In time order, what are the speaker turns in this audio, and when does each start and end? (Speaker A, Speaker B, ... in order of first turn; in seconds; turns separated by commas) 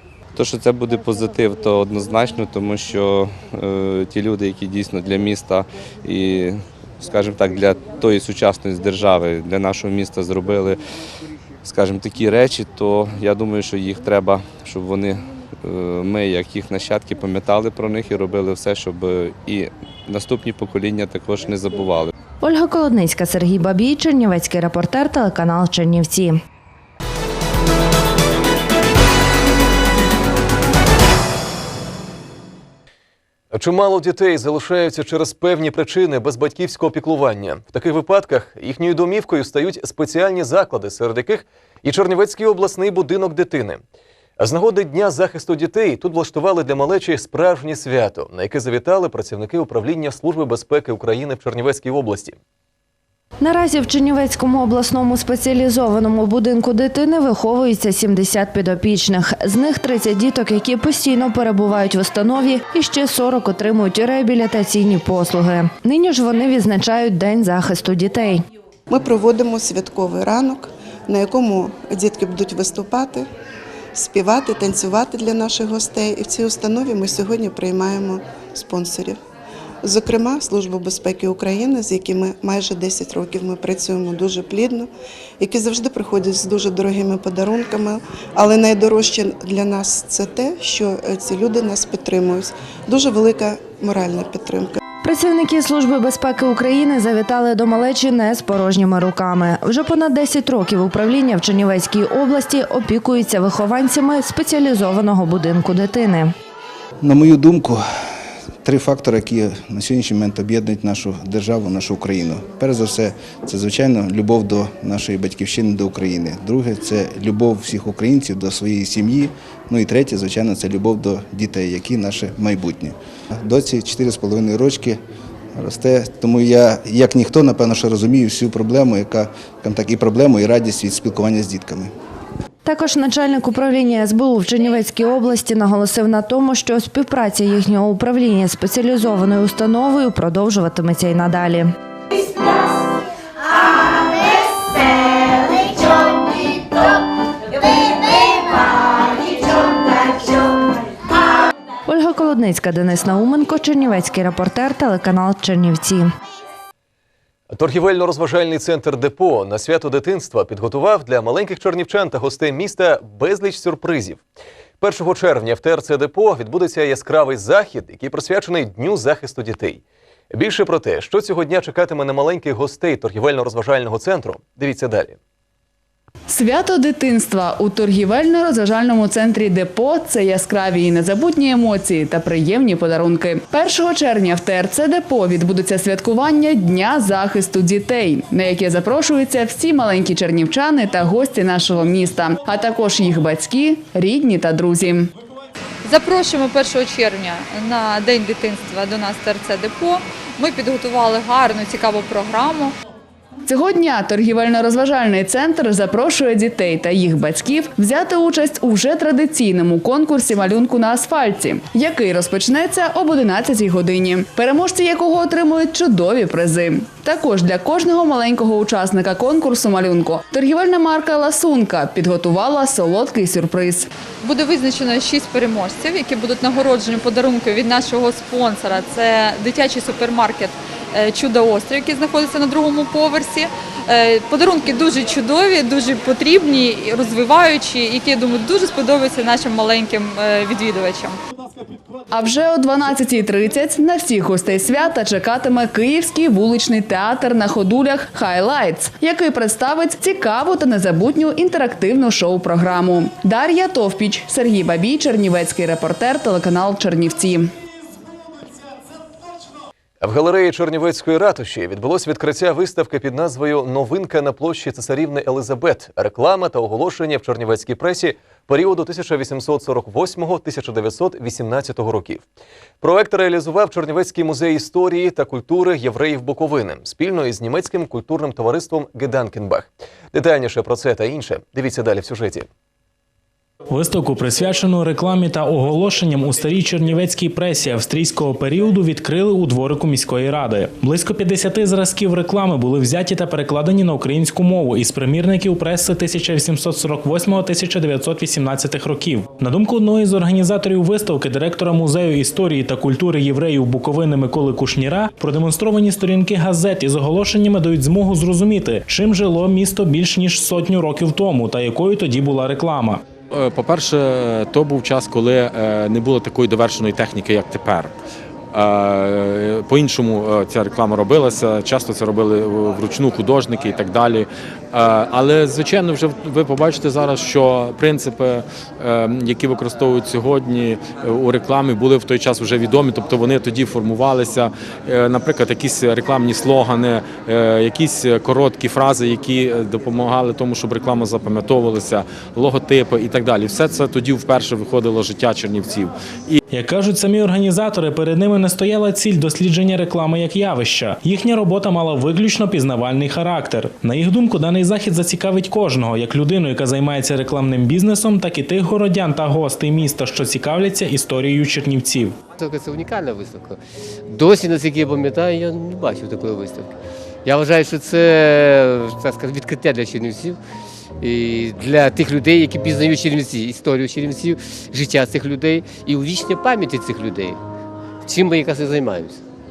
Speaker A: 0.3-10.8, Speaker A: 11.6-22.1, Speaker B: 22.4-26.3, Speaker C: 33.5-43.8, Speaker C: 44.4-52.4, Speaker B: 53.4-68.4, Speaker D: 68.9-73.3, Speaker D: 73.9-79.2, Speaker D: 79.8-84.9, Speaker D: 85.4-94.8, Speaker B: 95.0-106.3, Speaker E: 107.0-107.8, Speaker E: 108.6-125.0, Speaker E: 125.5-131.9, Speaker B: 132.6-141.7, Speaker B: 151.9-156.1, Speaker C: 157.5-164.2, Speaker C: 164.8-169.8, Speaker C: 170.3-175.2, Speaker F: 176.3-195.1, Speaker G: 195.8-202.7, Speaker F: 203.4-223.9, Speaker G: 224.2-241.2, Speaker F: 242.1-257.5, Speaker C: 260.0-272.2, Speaker C: 272.8-282.5, Speaker H: 283.7-313.0, Speaker I: 313.3-317.9, Speaker I: 318.5-346.3, Speaker H: 346.5-362.2, Speaker J: 362.4-366.7, Speaker J: 367.2-370.4, Speaker J: 371.0-377.4, Speaker J: 378.1-379.2